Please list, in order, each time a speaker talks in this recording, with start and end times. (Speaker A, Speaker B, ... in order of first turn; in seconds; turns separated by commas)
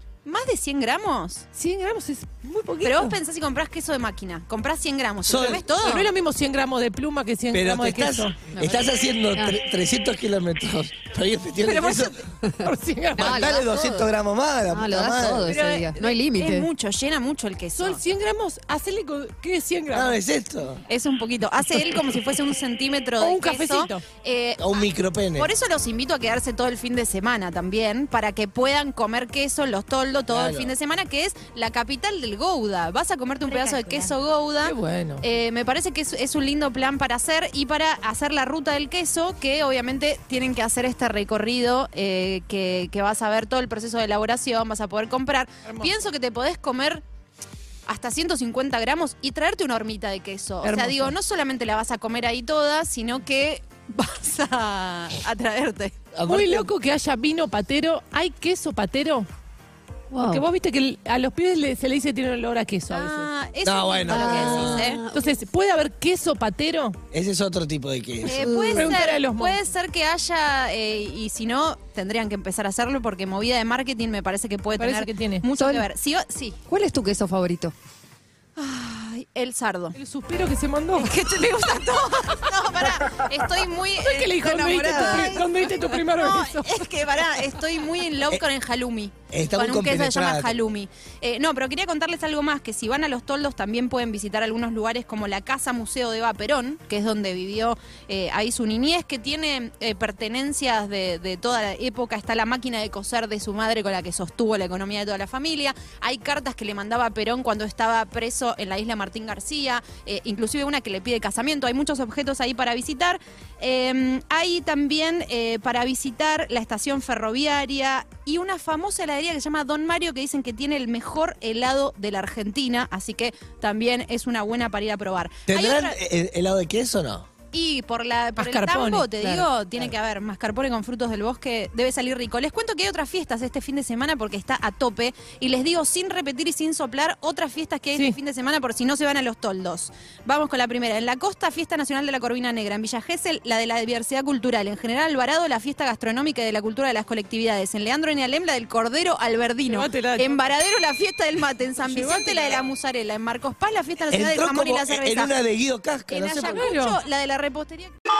Speaker A: 0.2-1.4, Speaker B: 1.5-3.1, Speaker A: 2.8-6.1, Speaker C: 5.2-5.7, Speaker B: 5.7-8.3, Speaker C: 7.5-12.2, Speaker D: 8.5-9.6, Speaker A: 11.6-12.3, Speaker B: 12.6-13.4, Speaker C: 13.2-15.5, Speaker D: 13.2-14.1, Speaker D: 14.7-16.7, Speaker A: 15.4-18.0, Speaker B: 17.8-20.2, Speaker C: 19.9-20.8, Speaker A: 20.9-47.0, Speaker B: 23.2-24.0, Speaker C: 24.6-25.5, Speaker C: 30.3-30.7, Speaker B: 34.6-35.2, Speaker B: 45.6-45.9, Speaker A: 47.9-56.0, Speaker B: 50.6-51.1, Speaker C: 56.1-56.7, Speaker B: 56.2-59.3, Speaker D: 60.1-60.4, Speaker B: 60.2-63.3, Speaker A: 62.9-65.0, Speaker C: 63.6-64.9, Speaker D: 64.1-65.2, Speaker B: 64.6-67.0, Speaker C: 67.1-68.9, Speaker A: 68.2-76.6, Speaker B: 68.3-69.6, Speaker B: 74.8-75.4, Speaker D: 75.6-75.9, Speaker D: 76.7-77.7, Speaker A: 78.5-80.0, Speaker B: 79.9-81.1, Speaker A: 80.9-126.0, Speaker B: 84.0-86.8, Speaker C: 89.3-90.6, Speaker C: 125.5-127.3, Speaker A: 127.5-155.3, Speaker B: 128.4-129.5, Speaker B: 149.7-150.4, Speaker B: 151.8-152.6, Speaker C: 154.1-156.6, Speaker A: 156.1-157.9, Speaker B: 156.4-157.0